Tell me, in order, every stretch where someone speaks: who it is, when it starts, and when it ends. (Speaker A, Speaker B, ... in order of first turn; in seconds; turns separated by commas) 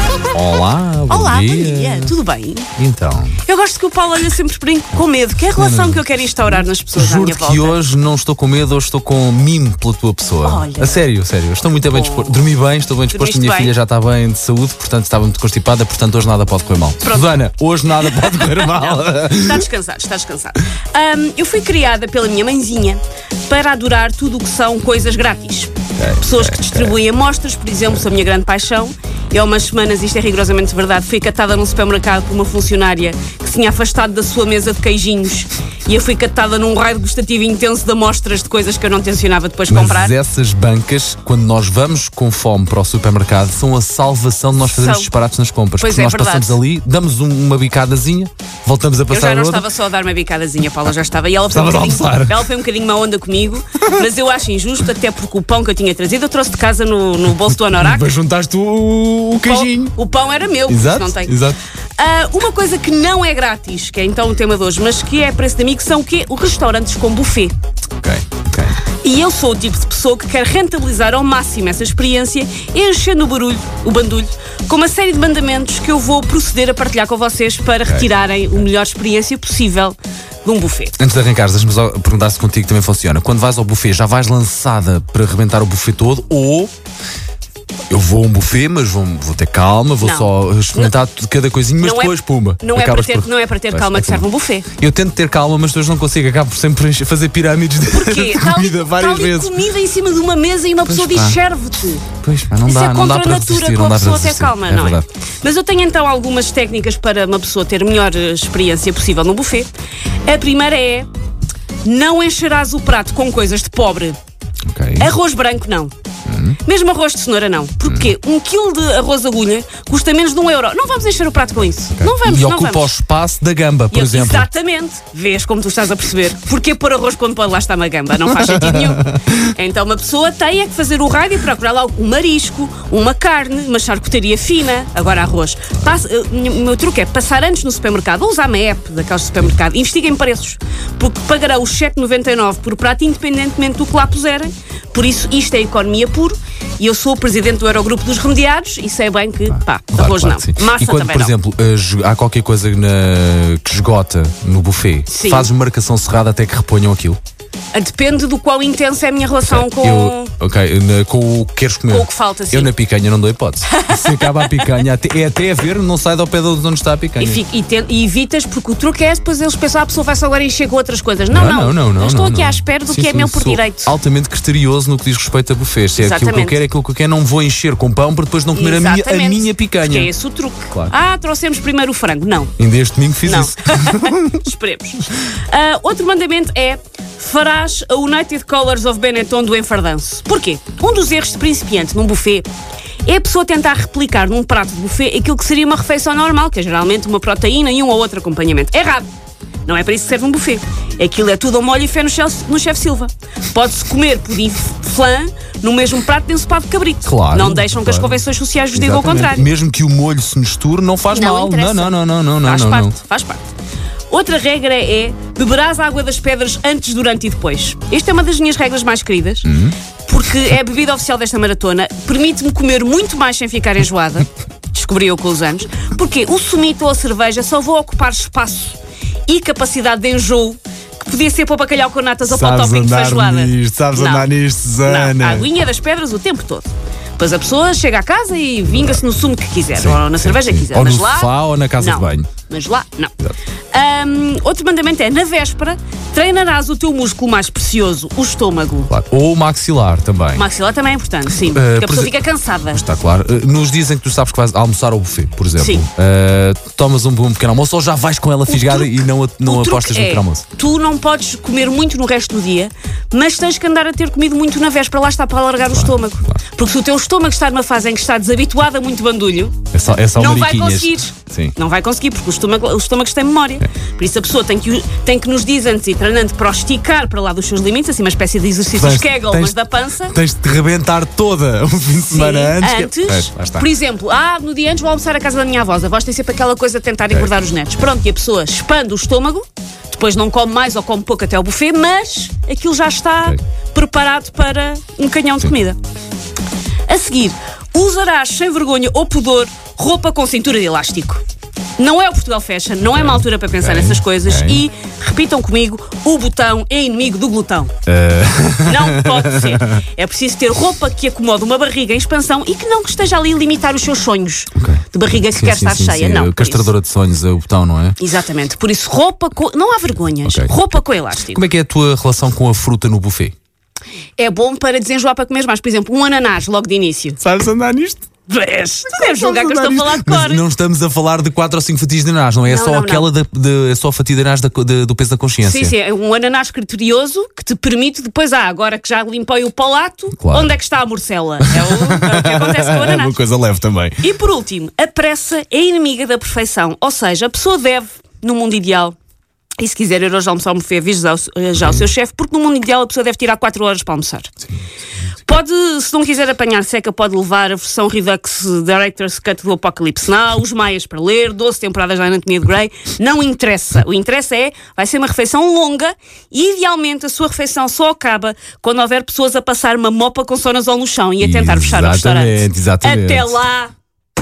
Speaker A: 0.3-2.1, Speaker B: 1.1-2.7, Speaker A: 2.8-3.4, Speaker B: 3.4-7.8, Speaker A: 5.5-19.7, Speaker B: 10.4-11.1, Speaker B: 11.8-12.5, Speaker B: 13.1-13.7, Speaker B: 17.0-17.4, Speaker B: 18.0-40.1, Speaker A: 26.0-27.0, Speaker A: 39.7-49.7, Speaker B: 44.7-45.1, Speaker B: 45.8-46.6, Speaker B: 49.1-58.1, Speaker A: 51.5-52.5, Speaker A: 57.4-60.0, Speaker B: 59.4-61.4, Speaker A: 60.7-61.6, Speaker B: 62.0-67.5, Speaker A: 68.0-68.8, Speaker B: 69.0-81.0, Speaker A: 77.9-78.1, Speaker A: 81.0-86.7, Speaker A: 87.9-99.5, Speaker B: 90.0-90.9, Speaker B: 91.8-94.7, Speaker B: 97.9-102.1, Speaker A: 100.9-101.4, Speaker A: 102.2-105.1, Speaker B: 102.6-109.7, Speaker B: 110.3-111.1, Speaker B: 111.8-114.2, Speaker A: 114.7-115.1, Speaker B: 115.0-115.9, Speaker A: 116.3-116.6, Speaker B: 116.6-122.9, Speaker A: 117.8-118.1, Speaker A: 122.0-124.5, Speaker B: 123.9-151.3, Speaker A: 128.4-129.2, Speaker A: 149.5-157.2, Speaker B: 155.1-155.5, Speaker B: 157.7-160.3, Speaker A: 159.4-167.4, Speaker B: 161.9-162.7, Speaker B: 163.7-164.6, Speaker B: 167.2-173.9, Speaker A: 171.3-180.1, Speaker B: 176.0-176.6, Speaker B: 178.5-182.5, Speaker A: 182.6-184.4, Speaker B: 183.2-192.5, Speaker B: 193.1-199.1, Speaker B: 199.7-209.5, Speaker A: 207.0-213.0, Speaker B: 211.1-213.5, Speaker B: 214.1-219.5, Speaker A: 219.4-219.8, Speaker B: 220.1-243.2, Speaker A: 232.3-235.5, Speaker A: 238.7-239.0, Speaker A: 239.8-242.3, Speaker B: 243.7-248.9, Speaker A: 248.9-250.4, Speaker B: 250.3-252.8, Speaker A: 251.3-252.1, Speaker A: 252.7-260.5, Speaker B: 258.5-269.6, Speaker A: 265.6-266.4, Speaker A: 269.7-271.6, Speaker B: 270.1-280.2, Speaker A: 278.7-283.7, Speaker B: 282.1-295.8, Speaker B: 296.9-301.2, Speaker B: 301.8-307.7, Speaker A: 302.9-304.6, Speaker A: 307.9-309.8, Speaker B: 308.6-316.7, Speaker A: 314.6-318.0, Speaker B: 318.0-321.4, Speaker A: 320.2-320.5, Speaker A: 321.3-323.3, Speaker B: 324.2-327.2, Speaker A: 327.2-328.0, Speaker B: 328.3-330.4, Speaker A: 328.9-335.8, Speaker B: 332.4-333.1, Speaker B: 335.4-343.2, Speaker A: 340.2-340.6, Speaker A: 341.4-344.0, Speaker B: 344.0-349.0, Speaker B: 349.6-354.3, Speaker B: 355.2-373.7, Speaker A: 371.2-373.4